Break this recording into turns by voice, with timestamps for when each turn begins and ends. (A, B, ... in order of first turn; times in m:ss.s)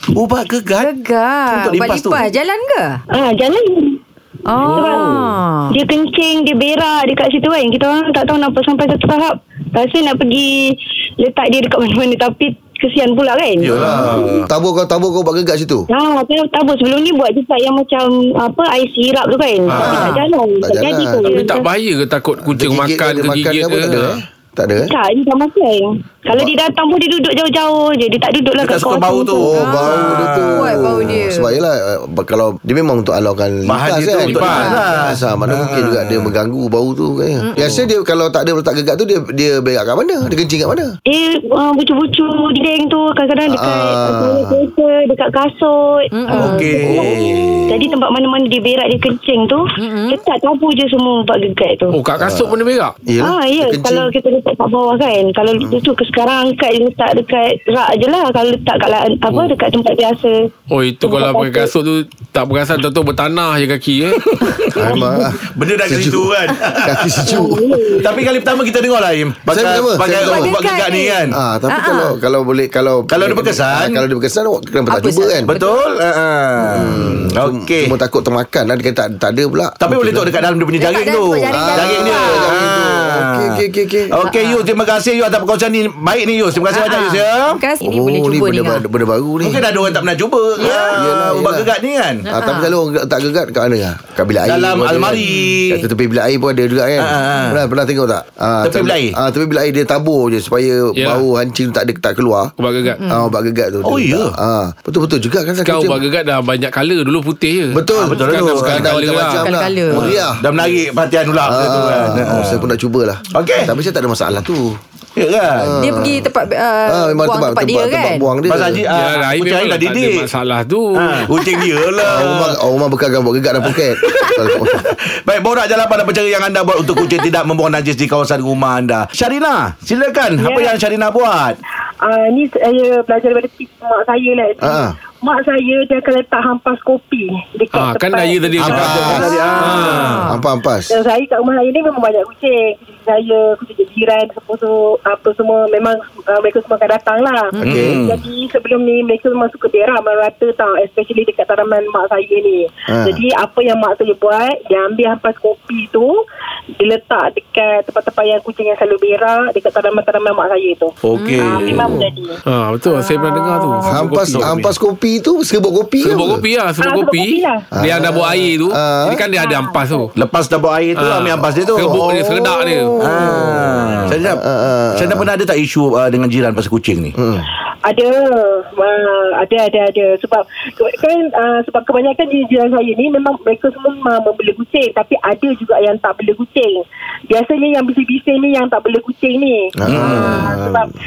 0:00.1-0:00.9 A
0:00.8-0:03.0 B
0:01.5-0:02.3 A
0:03.1-0:04.0 C
0:04.5-0:05.7 B
0:04.6-0:14.2 C
0:13.6-0:14.5 A
0:13.7-0:15.9 D
0:15.9-0:21.7 C
0:19.7-0:20.2 E
0:19.8-0:20.1 A
0:19.8-0:21.4 D
0:21.4-0:24.2 E
0:22.4-0:24.9 D
0:24.8-0:29.6 C
0:28.6-0:31.2 A
0:29.4-0:40.9 D
0:29.6-0:31.5 B
0:33.6-0:36.3 A
0:34.2-0:34.8 E
0:34.4-0:35.1 B
0:37.4-0:37.8 B
0:41.1-0:52.0 C
0:43.5-0:44.6 D
0:46.1-0:47.0 B
0:46.3-0:47.8 A
0:46.9-0:47.1 D
0:49.8-0:50.2 B
0:51.9-0:52.9 E
0:52.2-0:54.1 D
0:53.2-1:00.3 C
0:55.6-0:55.8 D
1:00.7-1:04.2 E
1:01.0-1:01.7 C
1:04.2-1:07.2 A
1:04.7-1:07.7 D
1:07.2-1:08.3 C
1:08.0-1:11.4 A
1:09.5-1:10.6 D
1:10.0-1:12.2 B
1:11.3-1:15.5 D
1:13.1-1:14.0 A
1:14.9-1:15.8 B
1:15.4-1:17.9 A
1:16.6-1:20.3 D
1:19.8-1:27.6 A
1:20.8-1:22.6 B
1:21.5-1:24.1 D
1:24.2-1:24.7 B
1:26.7-1:28.8 B
1:27.8-1:29.7 D
1:29.4-1:32.2 A
1:29.7-1:30.0 B
1:30.6-1:31.0 B
1:30.6-1:31.7 D
1:32.3-1:32.7 B
1:32.3-1:42.5 D
1:34.4-1:35.8 A
1:35.2-1:35.6 B
1:37.0-1:37.6 A
1:38.6-1:39.2 A
1:41.0-1:41.2 E
1:42.6-1:43.0 E
1:43.0-1:43.3 B
1:43.0-1:46.0 D
1:43.8-1:44.3 A
1:45.6-1:49.5 E
1:47.7-1:50.4 D
1:47.9-1:49.0 A
1:49.4-1:50.1 B
1:49.9-1:52.7 A
1:51.4-1:54.8 D
1:53.3-1:53.7 A
1:55.2-1:55.7 A
1:55.6-1:56.3 D
1:55.7-1:58.3 B
1:56.8-1:58.8 D
1:58.4-2:00.3 A
1:58.9-2:01.6 E
2:00.9-2:02.6 A
2:02.0-2:04.8 D
2:03.6-2:11.6 A
2:10.4-2:10.7 F
2:12.0-2:20.1 F
2:14.6-2:15.0 D
2:17.7-2:20.2 E
2:18.6-2:20.3 A
2:18.6-2:19.3 D
2:19.9-2:20.4 B
2:20.2-2:20.9 D
2:20.9-2:36.1 F
2:27.6-2:27.9 B
2:27.6-2:28.0 D
2:27.6-2:28.2 A
2:32.9-2:33.2 D
2:36.8-2:42.4 F
2:41.0-2:42.0 A
2:41.1-2:42.1 B
2:42.5-2:44.6 E
2:42.9-2:44.0 B
2:43.8-2:46.4 D
2:44.2-2:44.6 A
2:46.0-2:50.1 E
2:46.8-2:47.7 F
2:47.8-2:49.2 D
2:49.4-2:50.1 F
2:50.1-2:52.1 A
2:51.0-2:52.9 E
2:51.8-2:55.3 D
2:53.0-2:54.4 A
2:53.7-2:54.1 F
2:55.0-2:57.1 A
2:57.2-2:57.5 D
2:57.9-3:10.9 F
3:09.8-3:10.9 D
3:09.8-3:10.5 A
3:10.0-3:10.6 B